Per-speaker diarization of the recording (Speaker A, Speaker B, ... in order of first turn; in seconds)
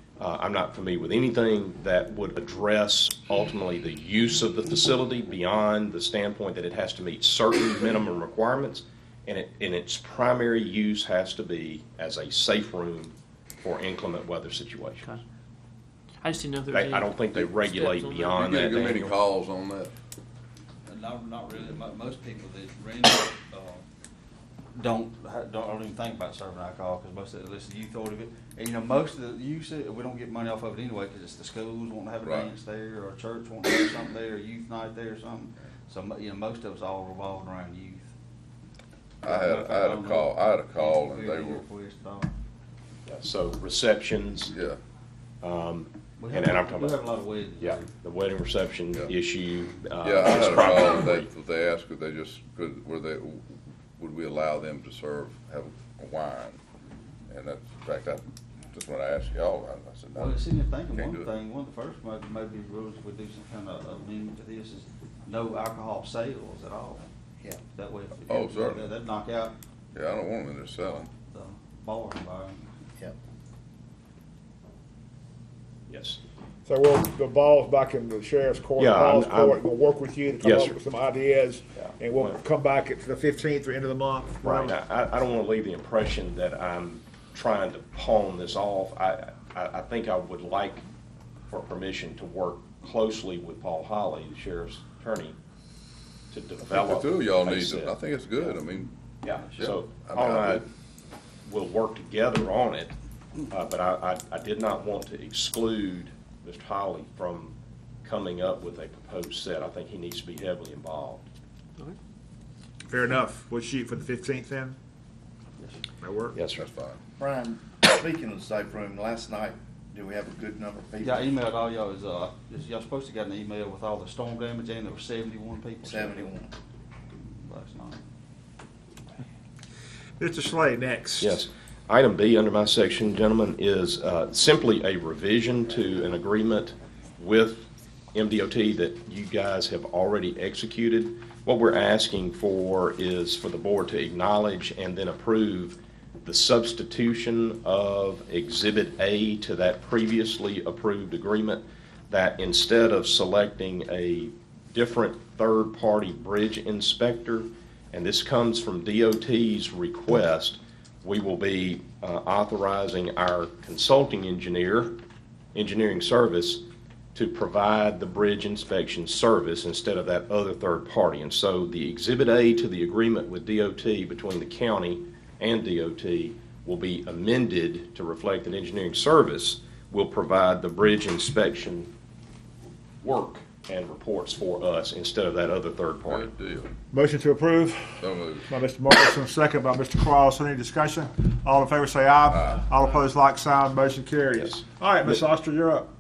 Speaker A: 0.2-15.2, 16.7-19.2, 43.1-44.5, 45.4-47.0, 47.6-51.3, 75.9-76.2, 78.8-79.6, 80.4-80.8, 81.8-82.4, 84.4-90.8, 91.5-95.4, 96.3-98.5, 99.2-100.7, 101.5-103.0, 103.5-111.3, 116.3-116.7, 131.2-164.9, 165.6-166.6, 167.1-181.9, 183.0-186.3, 194.4-195.2
Speaker B: 16.2-18.4
Speaker C: 18.3-19.9, 32.2-32.5, 39.2-41.6, 44.5-44.8, 50.0-53.4, 54.0-56.6, 57.3-61.3, 68.3-68.9, 69.9-71.1, 96.7-98.9, 99.6-100.7, 116.5-117.0, 186.1-186.7, 188.0-188.5, 192.3-192.7
Speaker D: 20.9-23.8, 24.7-38.1, 39.2-42.3, 46.2-47.9, 60.1-67.1, 67.7-69.6, 71.3-72.7, 121.0-126.4, 127.1-128.0
Speaker E: 76.7-84.8, 112.9-114.8, 116.0-116.3, 130.2-131.4, 186.9-195.9
Speaker F: 117.2-121.4, 125.8-126.5